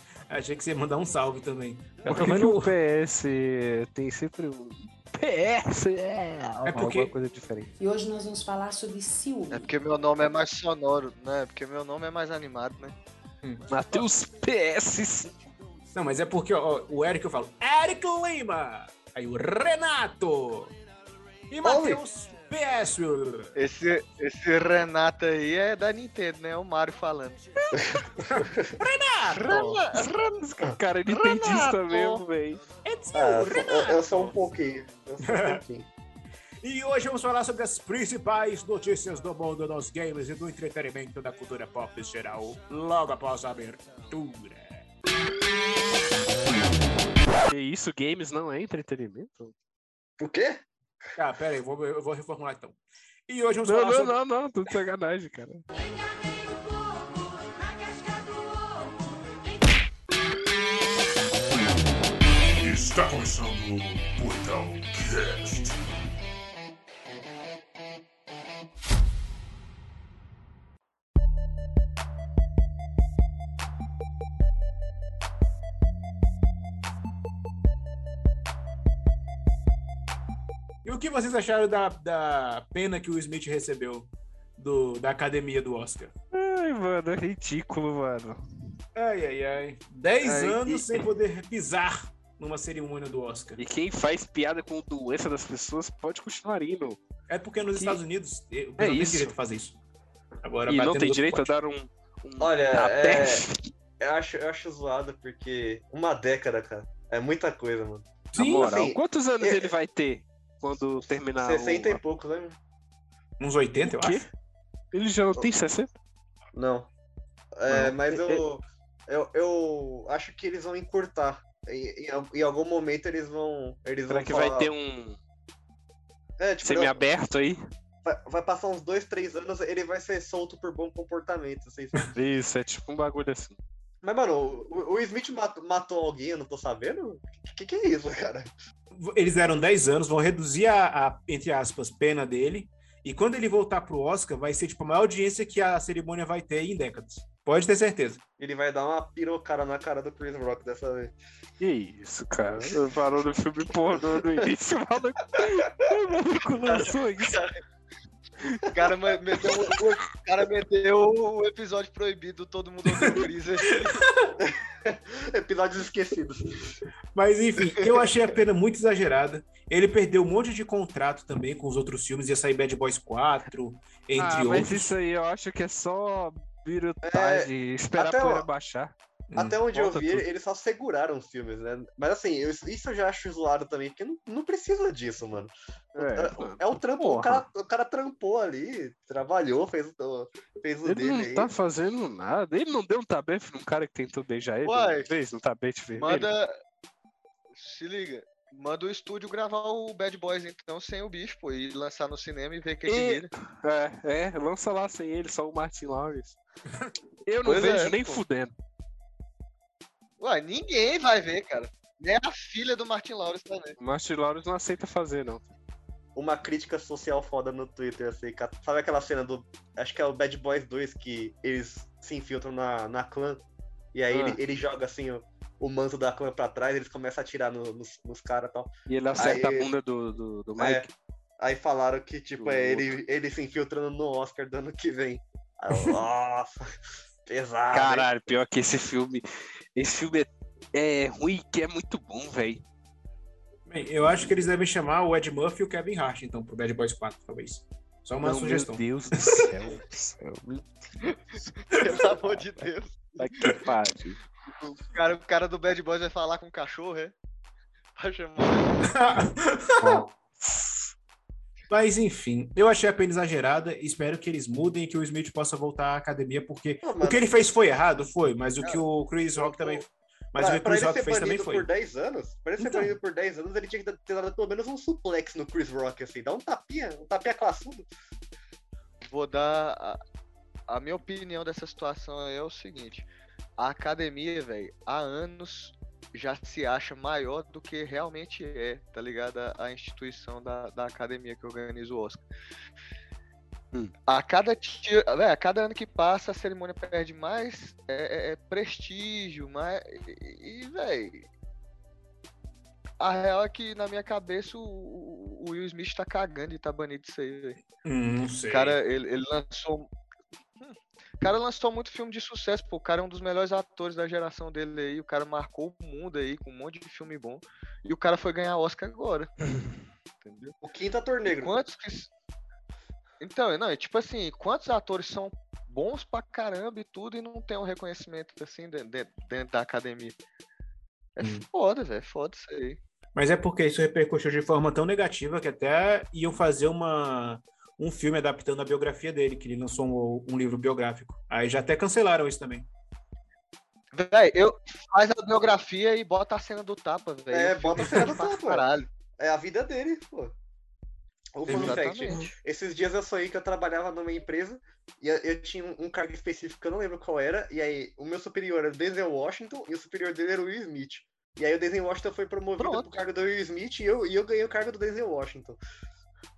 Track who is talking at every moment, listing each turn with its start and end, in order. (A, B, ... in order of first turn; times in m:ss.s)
0:00.3-0:02.7 A
0:02.1-0:07.7 B
0:06.6-0:07.1 A
0:07.8-0:09.7 C
0:09.5-0:13.0 D
0:13.4-0:14.0 A
0:13.7-0:15.4 B
0:15.9-0:20.7 A
0:21.5-0:23.6 A
0:21.6-0:22.0 E
0:23.6-0:27.4 D
0:27.8-0:28.7 E
0:28.2-0:29.6 A
0:29.3-0:32.6 B
0:29.4-0:30.4 D
0:31.1-0:32.2 D
0:32.8-0:34.4 A
0:33.1-0:35.9 E
0:35.2-0:35.6 A
0:36.6-0:44.9 A
0:47.5-0:49.5 B
0:50.2-0:50.6 E
0:51.2-0:54.2 A
0:53.6-0:55.6 B
1:03.5-1:05.6 F
1:20.8-1:26.1 A
1:26.3-1:28.4 B
1:29.0-1:33.6 A
1:30.2-1:31.1 B
1:33.6-1:37.0 B
1:37.3-1:39.8 A
1:38.8-1:39.4 B
1:40.4-1:41.5 A
1:40.7-1:43.6 B
1:42.4-1:43.4 E
1:44.0-1:49.7 E
1:48.3-1:48.7 A
1:48.4-1:52.0 B
1:51.4-1:52.6 E
1:53.4-1:54.3 A
1:53.8-1:54.3 B
1:54.9-1:55.9 B
1:56.5-1:56.9 E
1:57.6-2:04.7 E
1:57.7-1:58.5 B
2:04.1-2:05.2 B
2:06.4-2:07.0 E
2:06.6-2:07.6 B
2:08.0-2:12.1 E
2:12.1-2:13.6 B
2:14.0-2:18.5 E
2:18.9-2:28.2 A
2:28.4-2:31.1 E
2:31.6-2:37.4 B
2:36.8-2:37.5 D
2:38.7-2:44.0 D
2:39.2-2:39.4 E
2:44.4-2:46.6 E
2:47.1-2:54.9 A
2:54.2-2:59.0 B
2:57.0-2:58.5 E
2:59.3-2:59.6 A
2:59.4-3:11.5 E
2:59.7-3:00.2 B
3:06.0-3:07.4 B
3:10.8-3:16.3 B
3:14.6-3:15.1 D
3:16.0-3:16.5 D
3:17.5-3:23.3 D
3:22.9-3:26.4 B
3:27.3-3:28.5 B
3:27.4-3:28.2 D
3:30.2-3:33.8 D
3:33.8-3:35.5 B
3:36.2-3:43.4 E
3:43.9-3:49.7 E
3:44.1-3:44.4 B
3:48.9-3:50.9 B
3:50.6-3:50.9 E
3:51.4-3:56.6 E
3:52.4-3:53.0 B
3:57.3-3:58.1 E
3:57.7-3:59.2 B
3:59.8-4:02.6 B
4:03.7-4:08.8 A
4:08.2-4:11.7 B
4:11.7-4:13.5 D
4:13.2-4:14.2 B
4:14.6-4:17.2 D
4:18.0-4:18.9 D
4:18.8-4:20.0 A
4:19.8-4:20.9 B
4:21.7-4:31.7 A
4:26.8-4:27.4 E
4:29.3-4:29.8 E
4:30.4-4:37.8 E
4:32.6-4:33.0 A
4:39.0-4:40.0 D
4:40.7-4:43.1 D
4:43.6-4:52.2 D
4:54.1-5:01.3 D
5:03.0-5:07.6 D
5:07.8-5:08.8 A
5:08.5-5:09.9 D
5:10.6-5:19.4 D
5:20.2-5:20.6 D
5:20.6-5:21.5 E
5:21.3-5:22.1 D
5:23.2-5:30.2 D
5:31.2-5:32.8 D
5:31.2-5:31.5 A
5:33.2-5:42.7 A
5:43.9-5:48.9 D
5:47.3-5:48.7 E
5:49.2-5:50.4 E
5:51.4-6:05.6 E
5:51.5-5:52.2 D
6:02.6-6:03.0 D